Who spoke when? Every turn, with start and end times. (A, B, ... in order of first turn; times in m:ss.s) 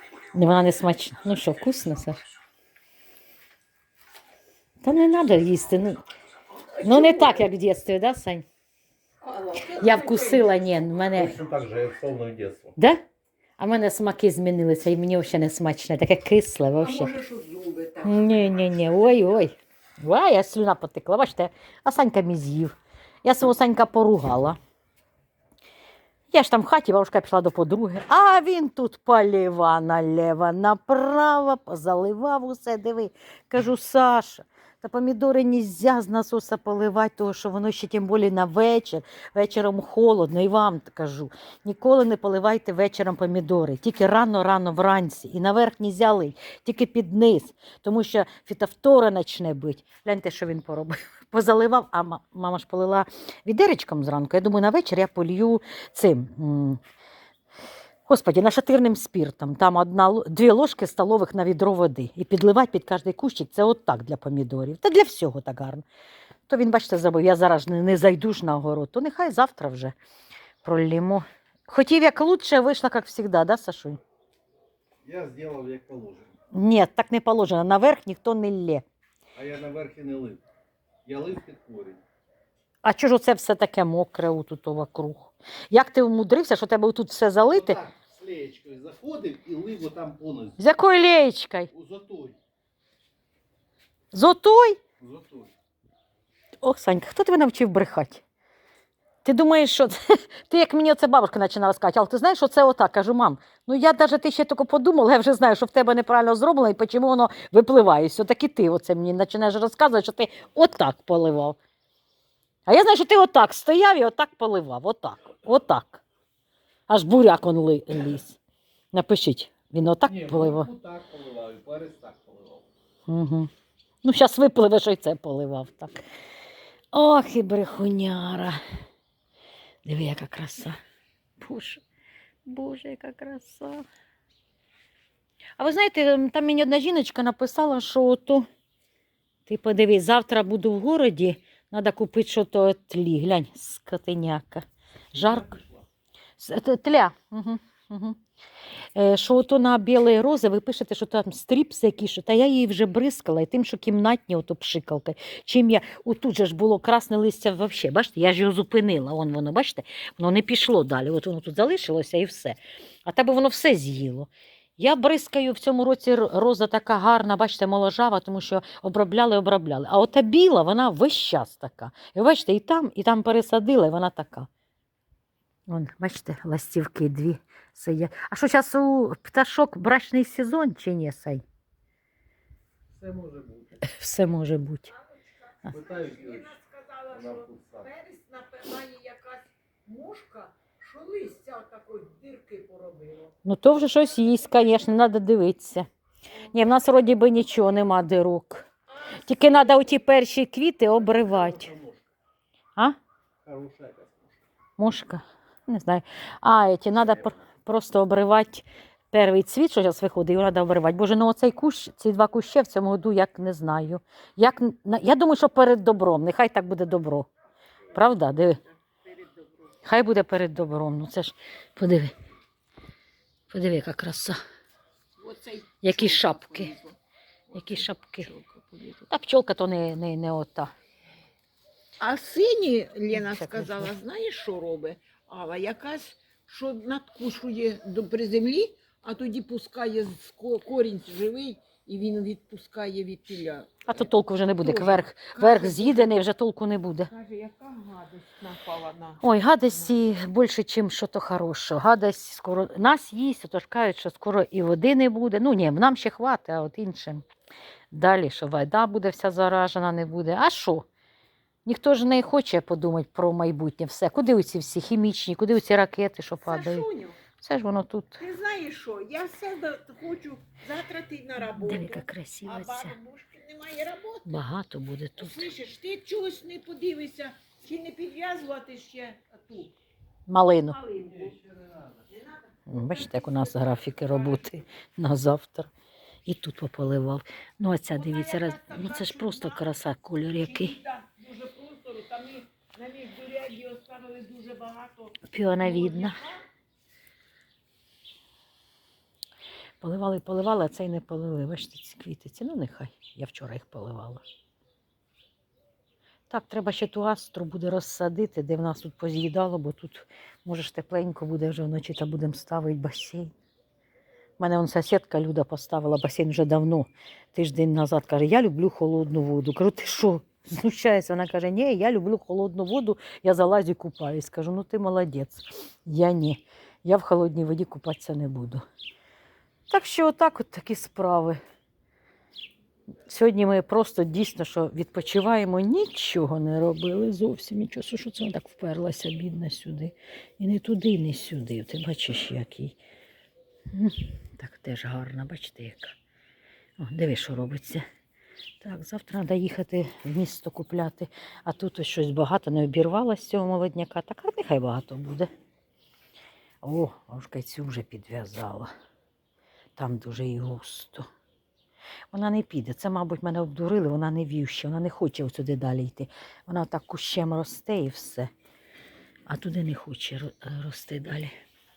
0:00.3-0:02.2 A
0:04.8-0:06.0 A
0:06.8-0:08.4 A
0:06.8-0:07.3 B
0:09.2-0:10.5 B
0:09.6-0:11.4 A
0:11.1-0:12.7 C
0:13.6-0:17.2 A
0:16.8-0:18.6 B
0:18.0-0:22.7 A
0:23.2-0:24.6 A
0:26.3-0:56.8 A
0:58.0-1:05.8 A
1:06.5-1:09.9 A
1:10.6-1:14.0 A
1:15.0-1:16.3 C
1:16.5-1:18.8 A
1:19.4-1:20.4 C
1:21.0-1:22.0 C
1:22.8-1:27.8 A
1:27.5-1:30.6 C
1:30.6-1:31.7 A
1:31.7-1:32.4 C
1:34.1-1:34.8 A
1:35.0-1:35.5 C
1:36.6-1:38.2 A
1:39.2-1:51.6 A
1:52.7-1:56.0 A
1:56.9-1:58.4 A
1:58.9-2:00.7 A
2:00.0-2:02.6 C
2:03.1-2:03.5 A
2:04.0-2:06.0 A
2:06.9-2:08.6 A
2:09.8-2:10.8 A
2:11.4-2:11.8 A
2:12.4-2:13.8 A
2:15.6-2:18.5 A
2:19.4-2:25.6 A
2:26.4-2:28.2 A
2:28.9-2:54.5 A
2:55.7-3:01.4 A
3:02.9-3:03.8 C
3:03.8-3:04.9 A
3:05.6-3:13.3 B
3:05.7-3:06.5 C
3:07.1-3:07.9 C
3:13.4-3:15.9 A
3:16.5-3:21.7 A
3:21.3-3:22.0 C
3:23.4-3:24.4 C
3:24.8-3:37.3 A
3:37.9-3:38.6 A
3:38.5-3:39.8 B
3:39.8-3:42.1 A
3:43.5-3:44.4 A
3:45.2-3:46.9 B
3:45.8-3:46.8 A
3:47.5-3:49.0 B
3:47.5-3:48.3 A
3:49.0-3:50.7 A
3:52.0-4:03.8 B
3:53.1-3:53.9 A
4:03.8-4:07.1 A
4:04.6-4:06.1 B
4:07.1-4:09.2 B
4:09.2-4:17.2 A
4:17.9-4:20.8 A
4:21.6-4:26.9 A
4:26.4-4:27.2 B
4:27.4-4:28.2 A
4:28.2-4:34.3 B
4:31.4-4:33.0 A
4:34.2-4:35.5 A
4:35.2-4:39.7 B
4:40.3-4:40.8 A
4:40.7-4:41.4 B
4:41.3-4:41.9 C
4:42.1-4:44.2 B
4:42.7-4:45.7 A
4:46.2-4:50.8 A
4:47.9-4:49.6 B
4:50.4-4:56.4 B
4:55.2-4:56.2 A
4:59.8-5:04.2 A
5:06.3-5:13.3 A
5:14.4-5:28.6 A
5:29.7-5:31.4 A
5:33.1-5:42.8 A
5:43.7-5:45.9 A
5:46.8-5:47.8 A
5:48.6-5:55.3 A
5:56.6-5:58.7 A
5:59.8-6:01.1 A
6:02.1-6:08.3 A
6:09.3-6:11.3 A